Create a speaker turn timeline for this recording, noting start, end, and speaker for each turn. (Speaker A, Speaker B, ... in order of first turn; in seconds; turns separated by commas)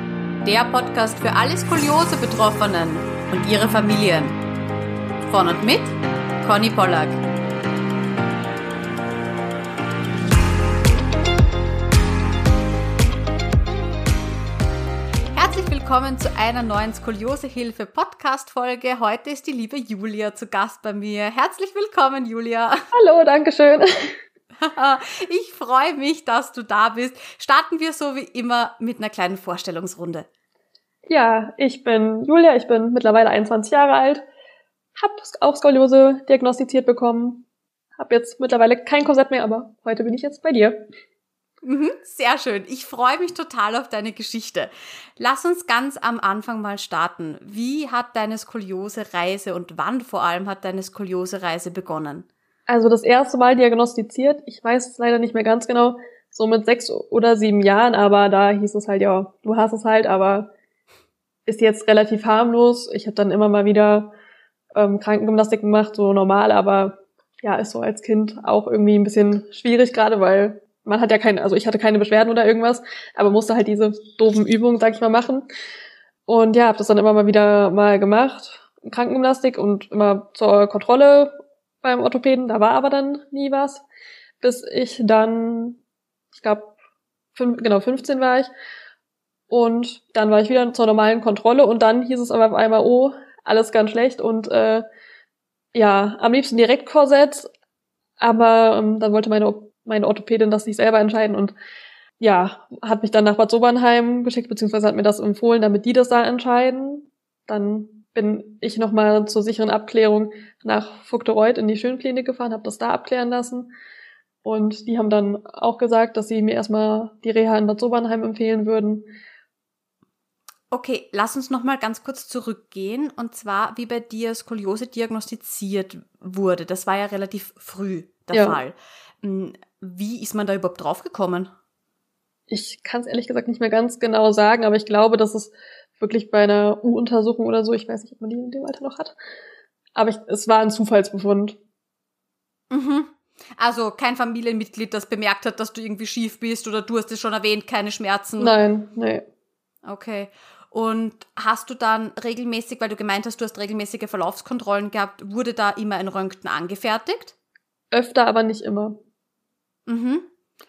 Speaker A: 0.4-4.4, Speaker A: 5.2-7.2, Speaker A: 15.3-22.8, Speaker B: 22.9-24.2, Speaker A: 24.6-30.3, Speaker B: 31.1-34.2, Speaker B: 35.0-37.5, Speaker B: 38.0-40.9, Speaker A: 41.6-52.3, Speaker B: 52.7-60.5, Speaker B: 61.5-64.1, Speaker B: 64.7-75.5, Speaker B: 76.3-83.8, Speaker B: 84.4-85.8, Speaker B: 86.3-86.7, Speaker B: 87.3-88.5, Speaker B: 89.5-94.8, Speaker B: 95.7-97.5, Speaker B: 98.2-101.5, Speaker B: 102.2-113.7, Speaker B: 114.4-119.1, Speaker A: 120.7-131.5, Speaker B: 128.3-128.6, Speaker B: 132.5-139.2, Speaker B: 139.9-141.6, Speaker A: 142.7-148.6, Speaker B: 148.4-149.2, Speaker A: 149.8-157.3, Speaker B: 157.9-159.0, Speaker A: 159.9-160.3